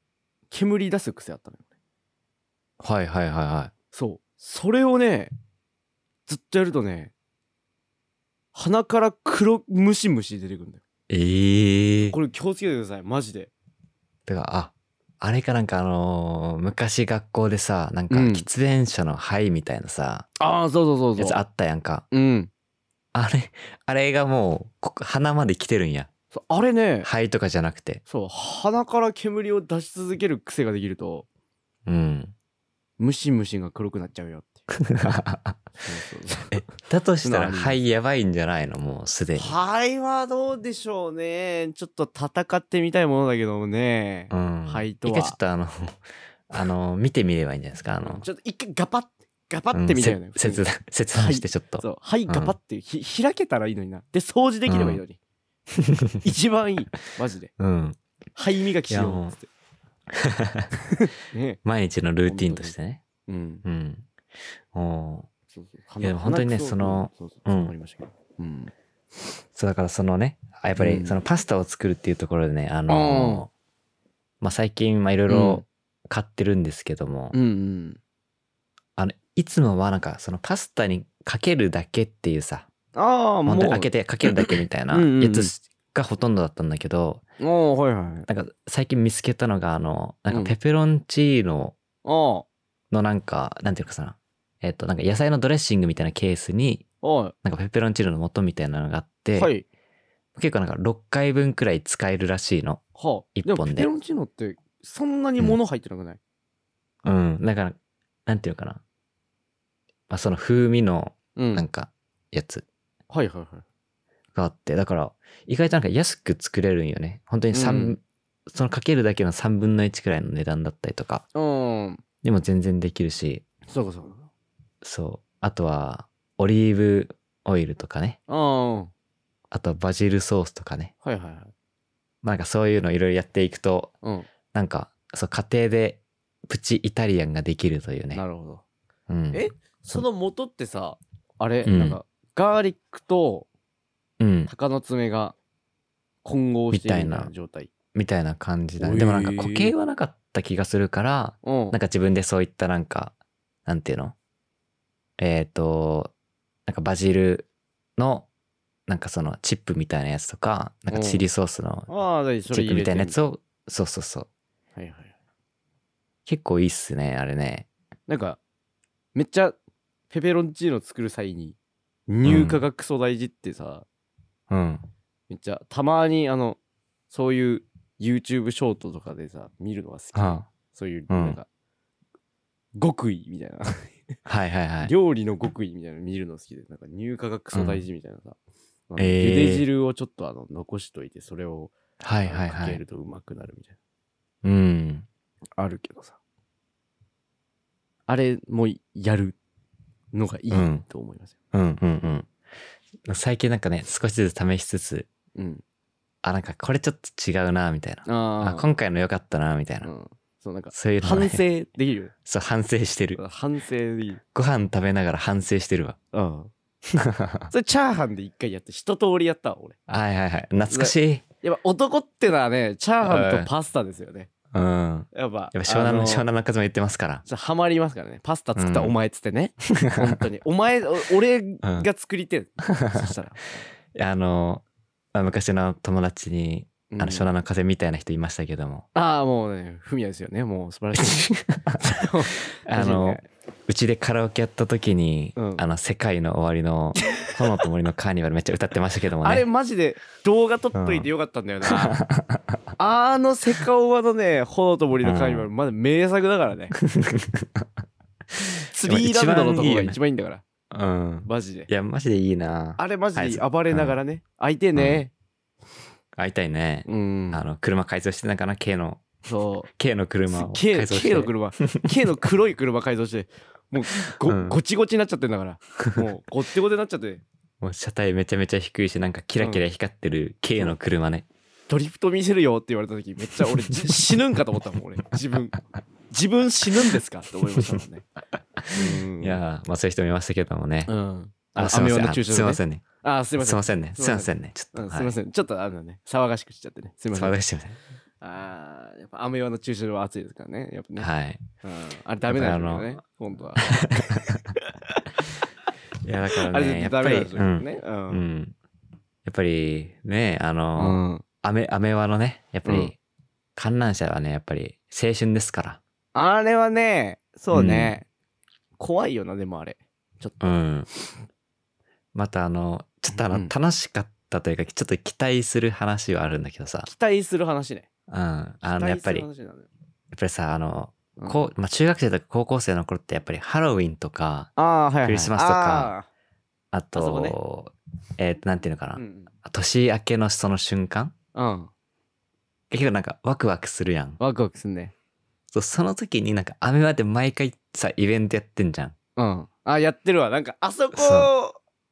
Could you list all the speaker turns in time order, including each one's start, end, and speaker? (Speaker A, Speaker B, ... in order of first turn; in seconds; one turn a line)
Speaker A: 0.5-1.6
Speaker B: 2.8-3.7
Speaker A: 3.9-5.3
Speaker A: 6.3-7.1
Speaker A: 8.5-10.8
Speaker B: 11.1-12.2
Speaker A: 12.1-13.5
Speaker B: 14.2-20.3
Speaker A: 18.1-18.5
Speaker A: 20.4-21.4
Speaker B: 21.2-22.0
Speaker A: 22.1-22.5
Speaker B: 23.1-26.1
Speaker A: 26.3-27.1
Speaker B: 27.0-28.0
Speaker A: 28.1-31.2
Speaker B: 31.9-32.3
Speaker A: 33.0-34.7
Speaker B: 34.7-35.6
Speaker A: 35.8-36.6
Speaker B: 36.5-39.5
Speaker A: 37.2-37.8
Speaker A: 39.4-45.4
Speaker B: 44.3-46.0
Speaker B: 46.5-48.2
Speaker A: 48.0-55.2
Speaker B: 49.7-52.5
Speaker B: 54.7-55.0
Speaker B: 55.7-56.2
Speaker A: 56.2-57.5
Speaker B: 57.6-58.0
Speaker A: 58.4-59.5
Speaker B: 58.9-59.3
Speaker B: 60.1-60.7
Speaker A: 60.9-61.6
Speaker B: 61.6-63.0
Speaker A: 62.3-62.7
Speaker A: 63.2-63.6
Speaker B: 63.6-64.1
Speaker B: 64.7-65.3
Speaker A: 65.5-68.7
Speaker B: 66.0-67.7
Speaker B: 69.5-73.5
Speaker A: 70.8-71.2
Speaker A: 72.9-73.5
Speaker B: 74.4-77.3
Speaker A: 75.3-75.6
Speaker A: 77.3-78.0
Speaker B: 79.0-82.7
Speaker A: 82.9-85.5
Speaker B: 83.5-87.2
Speaker A: 87.4-88.3
Speaker B: 88.3-91.8
Speaker A: 92.0-92.5
Speaker B: 92.9-96.8
Speaker A: 97.0-97.3
Speaker B: 97.4-99.5
Speaker A: 99.3-99.6
Speaker B: 100.3-102.8
Speaker A: 103.0-106.2
Speaker B: 103.3-103.9
Speaker B: 107.0-108.8
Speaker B: 110.1-112.6
Speaker A: 111.3-111.7
Speaker A: 113.1-113.6
Speaker B: 114.3-121.2
Speaker A: 117.5-118.0
Speaker A: 121.3-122.0
Speaker B: 122.2-123.4
Speaker A: 123.7-124.3
Speaker B: 124.8-128.2
Speaker A: 128.3-128.9
Speaker B: 129.5-130.9
Speaker A: 131.0-131.5
Speaker B: 132.2-133.9
Speaker A: 134.0-134.3
Speaker B: 134.5-138.2
Speaker A: 138.1-138.6
Speaker B: 139.1-140.0
Speaker A: 139.3-143.5
Speaker B: 141.6-142.0
Speaker B: 144.2-144.5
Speaker A: 144.5-145.3
Speaker A: 146.2-147.7
Speaker B: 146.7-147.3
Speaker B: 147.9-153.1
Speaker A: 148.8-149.7
Speaker A: 151.4-151.8
Speaker B: 153.7-154.1
Speaker B: 155.2-156.1
Speaker B: 156.7-158.3
Speaker B: 158.9-161.9
Speaker A: 160.9-161.2
Speaker A: 161.9-163.2
Speaker B: 162.5-164.3
Speaker A: 164.8-165.1
Speaker B: 166.2-167.7
Speaker A: 168.1-168.4
Speaker A: 169.1-169.6
Speaker A: 170.1-171.6
Speaker A: 172.1-173.8
Speaker B: 172.2-172.6
Speaker B: 174.5-174.8
Speaker A: 175.3-176.6
Speaker A: 177.1-181.5
Speaker B: 180.1-180.4
Speaker B: 181.1-181.4
Speaker A: 182.8-184.0
Speaker B: 184.2-184.9
Speaker A: 184.8-188.3
Speaker B: 187.5-187.8
Speaker A: 188.9-193.7
Speaker B: 189.0-189.7
Speaker B: 192.0-192.8
Speaker B: 194.4-195.1
Speaker A: 195.6-196.2
Speaker A: 198.1-199.3
Speaker A: 200.1-201.3
Speaker B: 200.5-200.8
Speaker B: 201.5-202.3
Speaker B: 203.1-205.1
Speaker A: 205.3-205.6
Speaker B: 206.2-209.9
Speaker A: 208.1-208.7
Speaker A: 209.8-212.1
Speaker B: 210.7-211.4
Speaker B: 212.2-213.2
Speaker A: 213.1-214.2
Speaker B: 214.3-216.0
Speaker A: 216.1-216.5
Speaker B: 216.9-217.5
Speaker A: 217.5-219.8
Speaker B: 219.9-221.2
Speaker A: 220.7-224.3
Speaker B: 223.0-223.5
Speaker B: 224.5-227.2
Speaker A: 225.1-226.3
Speaker A: 227.2-233.6
Speaker B: 228.6-228.9
Speaker B: 229.8-230.1
Speaker B: 232.8-233.1
Speaker B: 233.9-238.8
Speaker A: 236.9-237.3
Speaker A: 238.9-243.2
Speaker B: 241.0-241.8
Speaker B: 242.7-249.4
Speaker A: 245.3-245.6
Speaker A: 247.1-247.3
Speaker A: 249.2-252.0
Speaker B: 250.7-251.1
Speaker B: 251.7-252.6
Speaker A: 252.8-256.8
Speaker B: 255.0-255.5
Speaker B: 256.8-257.7
Speaker A: 258.7-260.4
Speaker B: 258.8-260.0
Speaker B: 260.7-263.9
Speaker A: 261.2-261.7
Speaker A: 262.8-265.1
Speaker B: 264.8-265.0
Speaker B: 266.1-269.1
Speaker A: 266.9-267.4
Speaker A: 269.2-269.7
Speaker B: 269.7-271.9
Speaker A: 270.3-277.2
Speaker B: 274.2-274.6
Speaker B: 275.8-276.1
Speaker B: 277.6-281.2
Speaker A: 279.4-279.6
Speaker A: 281.7-285.6
Speaker B: 283.4-284.1
Speaker A: 286.1-288.0
Speaker B: 288.6-290.9
Speaker A: 288.7-289.4
Speaker A: 290.9-297.4
Speaker B: 291.5-292.8
Speaker B: 293.4-295.1
Speaker B: 297.1-297.8
Speaker A: 298.2-301.1
Speaker B: 301.0-301.4
Speaker A: 301.6-305.0
Speaker B: 302.3-303.0
Speaker B: 303.6-304.4
Speaker B: 306.0-308.5
Speaker A: 306.4-308.2
Speaker B: 309.2-312.9
Speaker A: 310.8-311.2
Speaker A: 312.6-312.9
Speaker B: 313.6-315.8
Speaker A: 316.1-318.1
Speaker B: 317.5-317.9
Speaker A: 318.8-320.6
Speaker B: 320.4-320.9
Speaker B: 322.1-326.9
Speaker A: 323.3-323.5
Speaker A: 326.8-327.9
Speaker B: 328.1-329.3
Speaker A: 328.6-329.7
Speaker B: 330.1-334.5
Speaker A: 331.2-331.4
Speaker A: 334.6-336.1
Speaker B: 335.0-335.9
Speaker B: 336.7-341.1
Speaker A: 336.9-337.4
Speaker A: 338.9-339.3
Speaker A: 341.3-341.7
Speaker B: 342.7-344.2
Speaker A: 344.2-344.9
Speaker B: 345.5-348.9
Speaker A: 349.2-351.6
Speaker B: 350.9-351.3